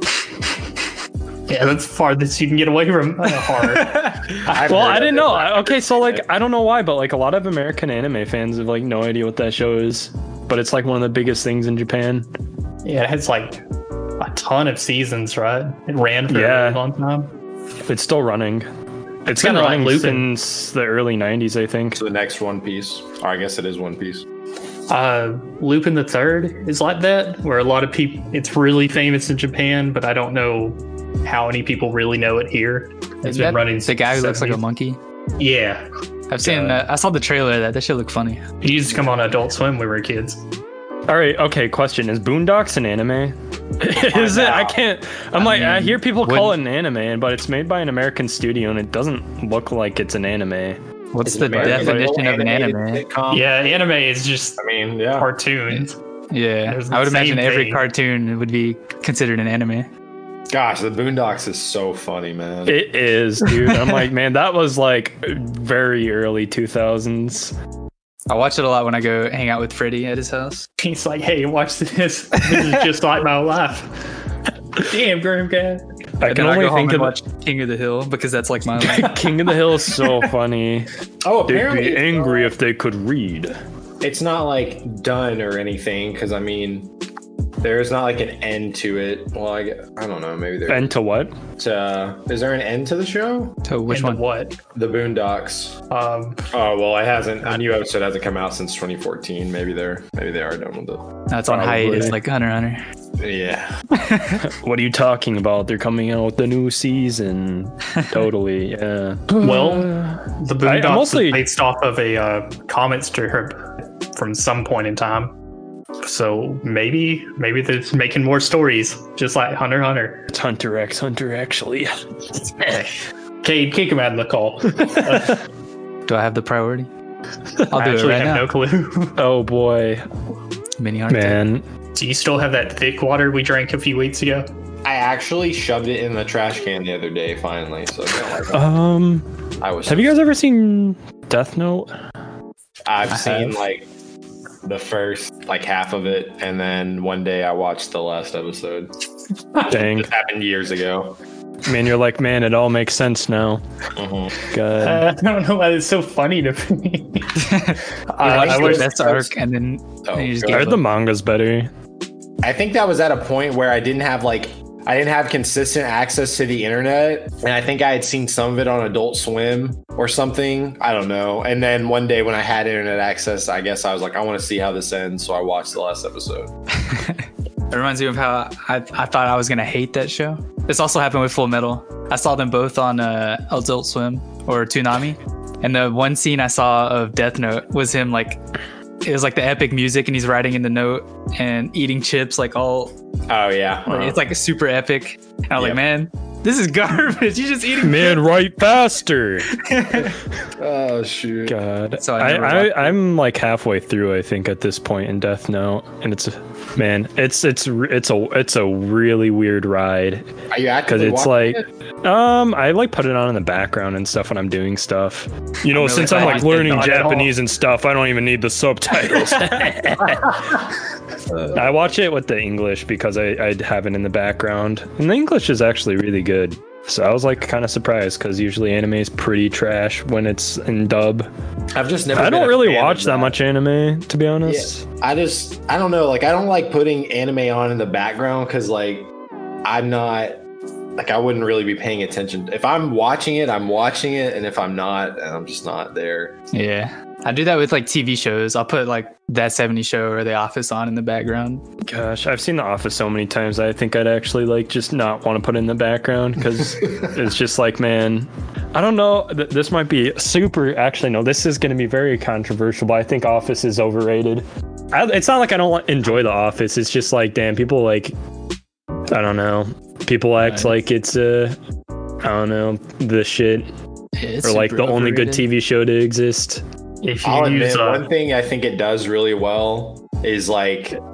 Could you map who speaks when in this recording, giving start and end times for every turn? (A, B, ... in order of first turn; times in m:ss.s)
0:01.5-0:04.5 A
0:04.4-0:06.2 B
0:04.5-0:12.3 C
0:12.8-0:13.6 A
0:14.2-0:17.3 A
0:16.3-0:16.8 C
0:17.9-0:18.7 C
0:19.2-0:22.0 C
0:19.4-0:20.3 A
0:21.9-0:24.2 B
0:24.9-0:34.6 A
0:33.2-0:35.0 D
0:35.4-0:35.8 A
0:36.3-0:38.4 D
0:36.5-0:36.8 B
0:38.6-0:40.4 A
0:41.1-0:50.8 C
0:44.2-0:44.7 B
0:45.4-0:46.6 D
0:51.1-0:53.0 D
0:51.2-0:53.8 B
0:51.6-0:52.0 C
0:53.3-0:54.6 A
0:54.6-0:55.3 B
0:55.2-0:56.0 A
0:56.3-0:59.9 D
0:56.7-0:57.8 A
1:00.5-1:02.8 B
1:02.7-1:07.5 C
1:08.3-1:10.6 D
1:10.8-1:14.0 A
1:14.8-1:15.8 A
1:16.2-1:17.2 C
1:16.2-1:19.3 D
1:18.8-1:20.9 C
1:21.2-1:22.5 B
1:21.4-1:23.6 C
1:24.0-1:26.9 B
1:27.6-1:30.9 B
1:30.7-1:31.3 C
1:31.6-1:33.6 B
1:33.6-1:34.2 D
1:33.9-1:34.5 A
1:34.7-1:35.8 B
1:35.9-1:36.4 A
1:36.5-1:41.1 B
1:41.3-1:42.8 D
1:41.5-1:42.2 C
1:43.2-1:43.8 B
1:43.9-1:44.4 D
1:44.4-1:51.4 C
1:49.4-1:55.3 A
1:56.0-2:00.3 A
2:00.3-2:03.0 C
2:03.4-2:05.4 A
2:04.8-2:05.2 C
2:06.1-2:06.9 D
2:07.7-2:08.5 D
2:07.7-2:09.2 A
2:09.2-2:10.0 C
2:10.8-2:11.4 D
2:11.1-2:11.6 C
2:11.9-2:14.5 A
2:14.8-2:18.6 B
2:18.5-2:19.3 C
2:19.6-2:20.2 B
2:19.8-2:21.9 C
2:22.8-2:23.9 B
2:23.1-2:23.5 D
2:24.6-2:28.9 B
2:29.7-2:31.2 B
2:29.7-2:30.1 C
2:31.6-2:33.6 C
2:34.0-2:34.3 B
2:34.4-2:35.0 C
2:34.8-2:37.6 A
2:37.3-2:40.8 D
2:38.1-2:38.9 A
2:38.2-2:39.3 B
2:40.0-2:40.6 B
2:40.5-2:41.7 C
2:42.4-2:56.5 B
2:56.8-3:08.4 D
3:09.0-3:12.9 D
3:13.3-3:14.2 B
3:13.9-3:18.2 D
3:17.8-3:19.5 C
3:19.5-3:20.1 D
3:20.6-3:21.6 B
3:21.4-3:30.3 C
3:22.0-3:23.0 D
3:30.5-3:31.6 B
3:30.9-3:40.6 C
3:35.7-3:37.0 D
3:35.9-3:37.3 A
3:41.5-3:51.3 C
3:51.7-3:53.4 B
3:52.1-3:54.8 C
3:54.4-3:59.1 B
3:59.6-4:00.4 B
4:01.0-4:06.3 B
4:06.5-4:11.6 D
4:11.8-4:28.1 C
4:29.1-4:31.6 C
4:30.4-4:30.8 D
4:32.2-4:33.7 C
4:34.2-4:35.4 D
4:34.4-4:36.6 C
4:37.0-4:38.0 A
4:37.2-4:41.0 B